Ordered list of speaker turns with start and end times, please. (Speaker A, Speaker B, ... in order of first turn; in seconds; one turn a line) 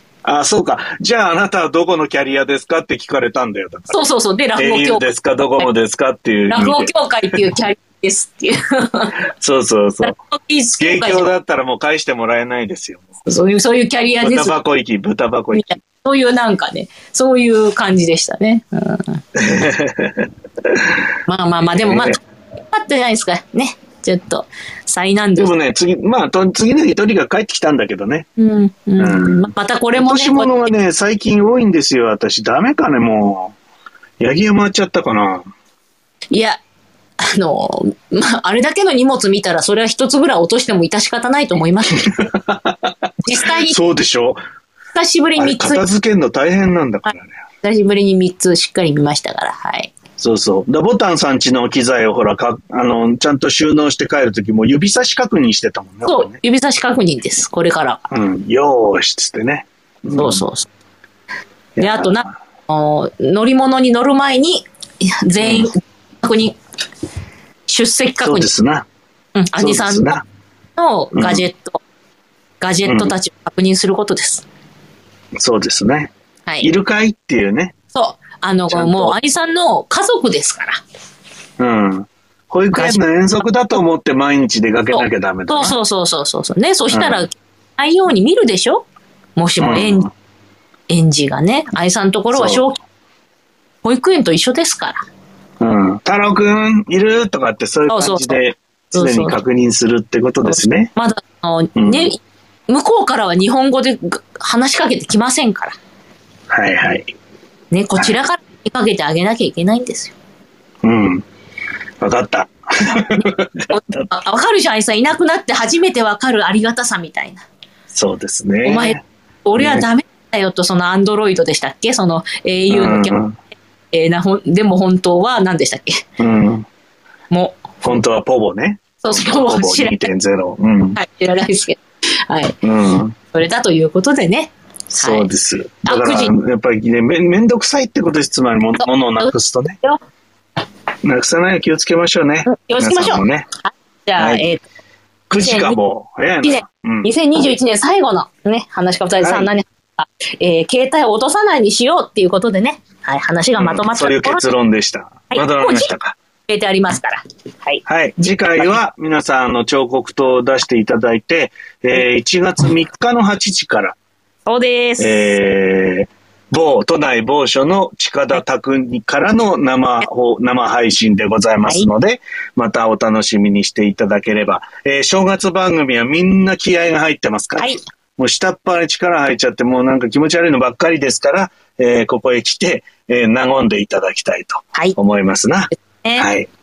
Speaker A: 0.2-4.0
Speaker B: 3.9-5.0
Speaker A: 4.6-7.4
Speaker B: 6.5-9.2
Speaker A: 9.4-10.2
Speaker B: 10.0-11.3
Speaker A: 10.8-13.1
Speaker B: 13.3-14.6
Speaker A: 14.2-15.8
Speaker B: 15.5-19.2
Speaker A: 19.4-21.0
Speaker B: 21.3-22.2
Speaker A: 21.8-22.2
Speaker B: 22.7-25.5
Speaker A: 25.4-28.3
Speaker B: 28.4-30.7
Speaker A: 29.0-33.6
Speaker A: 34.2-35.5
Speaker B: 36.3-36.6
Speaker B: 37.2-42.1
Speaker A: 42.0-44.4
Speaker B: 43.2-43.8
Speaker B: 45.0-45.9
Speaker A: 45.4-47.3
Speaker B: 47.6-49.9
Speaker A: 50.2-56.4
Speaker B: 56.0-58.0
Speaker A: 58.1-60.4
Speaker B: 60.2-60.7
Speaker A: 61.8-62.3
Speaker B: 61.8-66.6
Speaker A: 65.4-65.7
Speaker B: 67.7-68.5
Speaker A: 68.2-68.9
Speaker B: 69.4-70.2
Speaker A: 69.6-70.2
Speaker B: 70.8-71.8
Speaker A: 71.2-71.4
Speaker B: 72.6-74.5
Speaker A: 72.9-73.1
Speaker A: 75.4-76.1
Speaker A: 76.6-77.8
Speaker B: 77.9-80.8
Speaker A: 78.7-79.2
Speaker A: 81.6-85.8
Speaker B: 82.7-83.0
Speaker B: 84.9-90.1
Speaker A: 86.9-87.2
Speaker A: 89.6-90.1
Speaker B: 90.9-92.8
Speaker A: 92.3-92.6
Speaker B: 93.8-95.0
Speaker A: 95.6-100.9
Speaker B: 97.9-98.4
Speaker B: 98.9-99.4
Speaker B: 100.5-105.8
Speaker A: 101.8-102.1
Speaker A: 106.5-107.1
Speaker B: 107.7-110.1
Speaker A: 110.8-111.2
Speaker A: 112.0-114.1
Speaker B: 112.8-117.5
Speaker A: 117.9-119.0
Speaker B: 118.7-123.2
Speaker A: 119.6-119.9
Speaker A: 122.7-123.4
Speaker B: 123.9-126.0
Speaker A: 126.2-126.7
Speaker B: 127.3-127.8
Speaker A: 127.8-131.0
Speaker B: 129.0-130.1
Speaker B: 131.0-132.6
Speaker A: 132.6-133.2
Speaker B: 133.3-135.3
Speaker A: 134.9-139.8
Speaker B: 135.8-136.4
Speaker B: 138.8-139.3
Speaker A: 141.0-143.5
Speaker B: 142.5-144.6
Speaker A: 144.2-144.5
Speaker A: 145.3-147.1
Speaker B: 145.4-145.8
Speaker B: 146.4-154.4
Speaker A: 149.2-149.5
Speaker A: 153.6-156.2
Speaker B: 155.3-155.9
Speaker B: 156.5-157.8
Speaker A: 157.9-164.0
Speaker B: 164.5-165.3
Speaker A: 165.0-186.5
Speaker B: 185.8-186.3